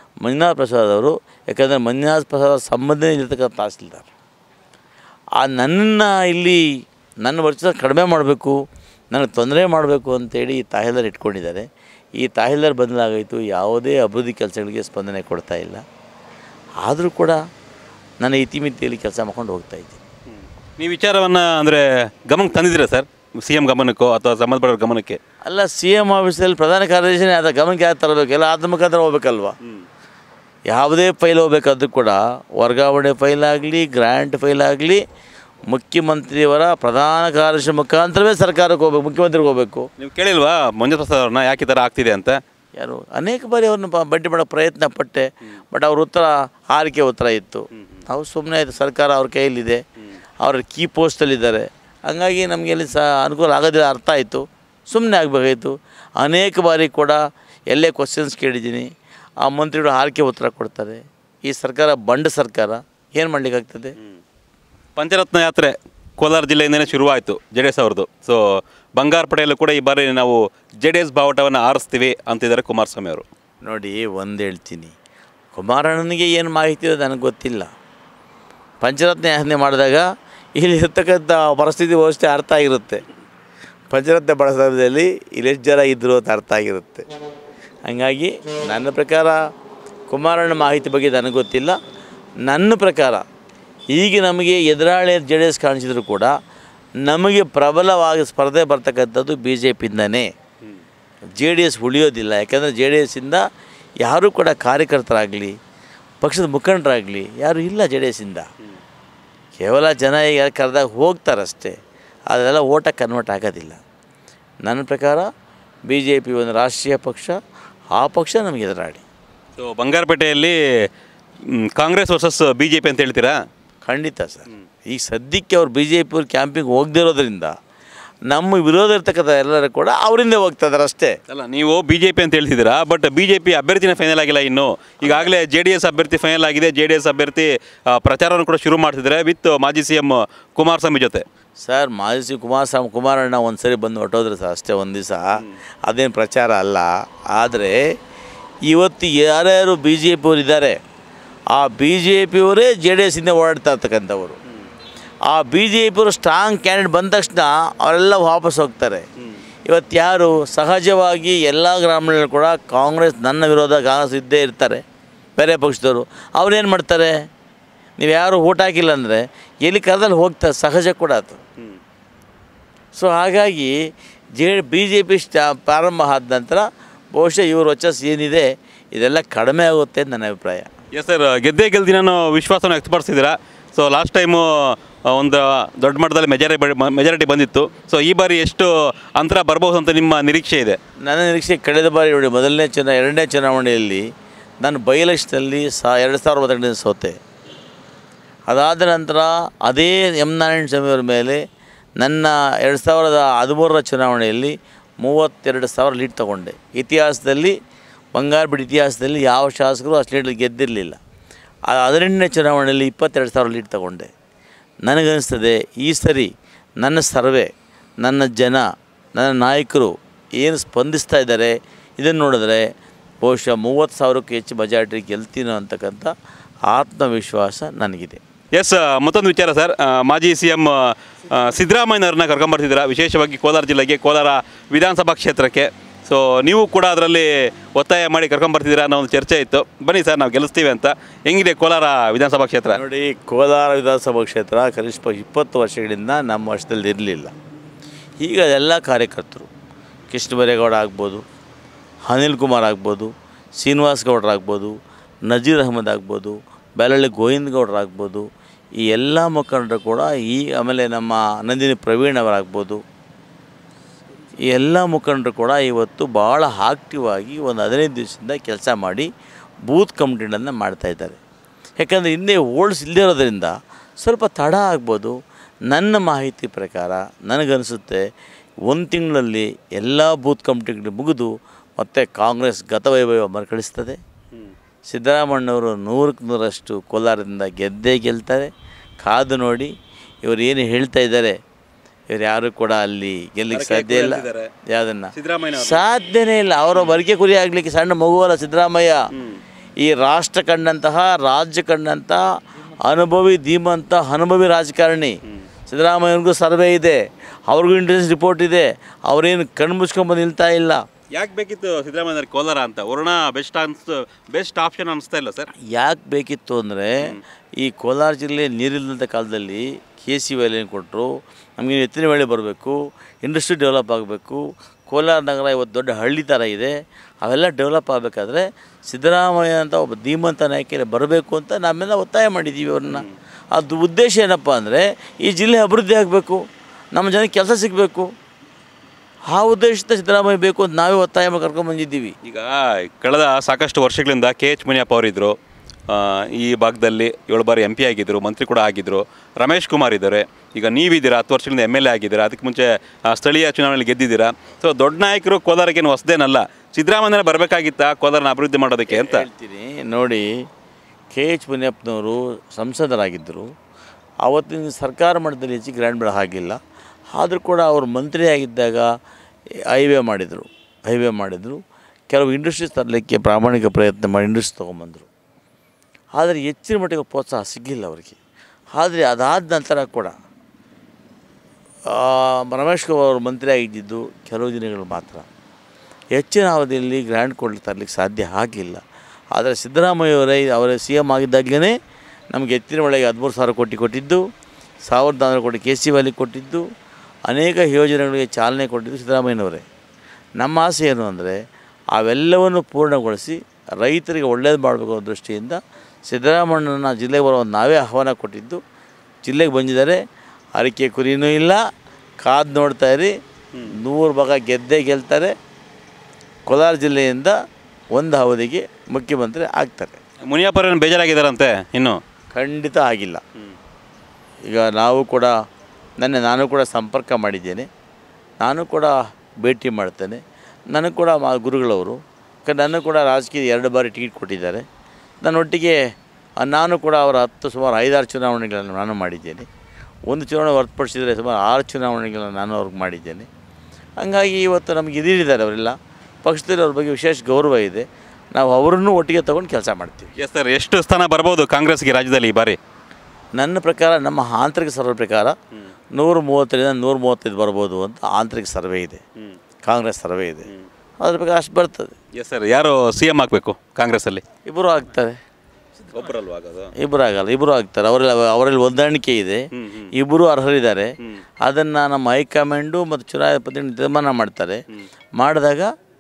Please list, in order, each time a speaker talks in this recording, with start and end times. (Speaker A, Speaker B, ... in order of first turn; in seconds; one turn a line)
Speaker A: 0.2-4.1
Speaker A: 5.4-6.6
Speaker A: 7.2-8.6
Speaker A: 9.1-11.7
Speaker A: 12.2-15.8
Speaker A: 16.8-17.4
Speaker A: 18.2-20.0
Speaker B: 20.3-25.2
Speaker A: 25.4-29.6
Speaker A: 30.7-35.0
Speaker A: 35.7-39.9
Speaker B: 40.0-42.4
Speaker A: 42.8-49.8
Speaker A: 50.4-57.2
Speaker A: 57.7-58.9
Speaker A: 59.4-64.0
Speaker B: 65.0-68.4
Speaker B: 69.0-73.2
Speaker A: 73.6-74.9
Speaker A: 75.5-77.7
Speaker A: 78.8-80.0
Speaker A: 80.6-83.0
Speaker A: 83.9-87.1
Speaker A: 87.9-89.4
Speaker A: 90.1-91.8
Speaker A: 92.4-93.2
Speaker A: 93.9-96.3
Speaker A: 97.0-100.3
Speaker A: 101.4-103.4
Speaker A: 104.0-105.6
Speaker A: 106.2-108.5
Speaker A: 109.6-111.7
Speaker A: 112.3-113.8
Speaker A: 114.6-115.3
Speaker A: 115.9-117.3
Speaker A: 118.0-119.0
Speaker B: 119.6-120.6
Speaker B: 121.5-123.4
Speaker A: 123.9-127.5
Speaker A: 128.3-131.2
Speaker B: 131.3-141.2
Speaker A: 135.0-135.3
Speaker A: 141.7-147.8
Speaker A: 148.7-150.8
Speaker A: 151.5-154.4
Speaker A: 155.3-159.1
Speaker A: 159.7-164.8
Speaker A: 165.4-167.1
Speaker A: 168.0-171.4
Speaker A: 172.9-173.7
Speaker A: 174.4-180.7
Speaker B: 180.9-190.8
Speaker A: 191.0-194.0
Speaker A: 194.6-197.2
Speaker A: 198.5-201.4
Speaker A: 202.0-207.6
Speaker A: 208.2-211.0
Speaker A: 211.7-214.1
Speaker A: 214.8-216.3
Speaker A: 216.8-217.5
Speaker A: 218.0-218.6
Speaker A: 219.2-222.6
Speaker A: 223.2-226.1
Speaker A: 226.7-228.2
Speaker B: 228.5-242.8
Speaker A: 242.7-247.3
Speaker A: 248.2-249.5
Speaker A: 250.1-251.2
Speaker A: 252.1-254.7
Speaker A: 255.3-258.3
Speaker A: 258.8-262.8
Speaker A: 264.5-269.1
Speaker A: 269.7-271.2
Speaker A: 271.8-275.1
Speaker A: 275.7-278.0
Speaker A: 278.7-284.0
Speaker A: 284.9-288.5
Speaker A: 289.0-289.7
Speaker A: 290.2-291.4
Speaker A: 292.1-299.0
Speaker B: 293.5-294.5
Speaker B: 295.1-295.9
Speaker B: 296.7-297.0
Speaker B: 299.1-299.4
Speaker A: 299.8-302.2
Speaker A: 302.9-310.8
Speaker B: 311.1-315.5
Speaker A: 315.6-336.4
Speaker A: 336.9-338.1
Speaker A: 339.3-342.1
Speaker B: 342.2-345.4
Speaker B: 345.9-359.3
Speaker A: 358.9-360.3
Speaker A: 361.1-363.5
Speaker A: 364.2-366.6
Speaker A: 367.1-368.9
Speaker A: 369.7-371.6
Speaker A: 372.1-375.1
Speaker A: 376.2-378.2
Speaker A: 378.8-380.1
Speaker A: 381.9-385.3
Speaker A: 386.1-388.8
Speaker A: 389.3-391.7
Speaker A: 392.3-394.2
Speaker A: 394.9-396.6
Speaker A: 397.3-399.7
Speaker A: 400.4-401.4
Speaker A: 401.9-408.6
Speaker A: 409.2-410.0
Speaker A: 410.6-411.6
Speaker A: 412.2-413.1
Speaker A: 413.7-415.3
Speaker A: 416.5-417.3
Speaker A: 417.9-420.0
Speaker B: 420.3-422.0
Speaker A: 422.4-423.2
Speaker A: 424.5-425.3
Speaker A: 426.0-427.7
Speaker A: 428.4-430.2
Speaker A: 430.7-434.6
Speaker A: 435.2-435.8
Speaker A: 436.4-439.5
Speaker A: 440.1-443.3
Speaker A: 444.0-450.1
Speaker B: 450.2-452.6
Speaker A: 453.4-455.3
Speaker A: 455.9-459.0
Speaker A: 459.6-460.5
Speaker A: 461.0-461.9
Speaker B: 462.2-464.2
Speaker A: 464.4-465.2
Speaker B: 465.9-466.7
Speaker A: 466.8-469.4
Speaker B: 469.6-469.9
Speaker A: 469.9-470.9
Speaker A: 471.4-474.6
Speaker A: 475.2-475.7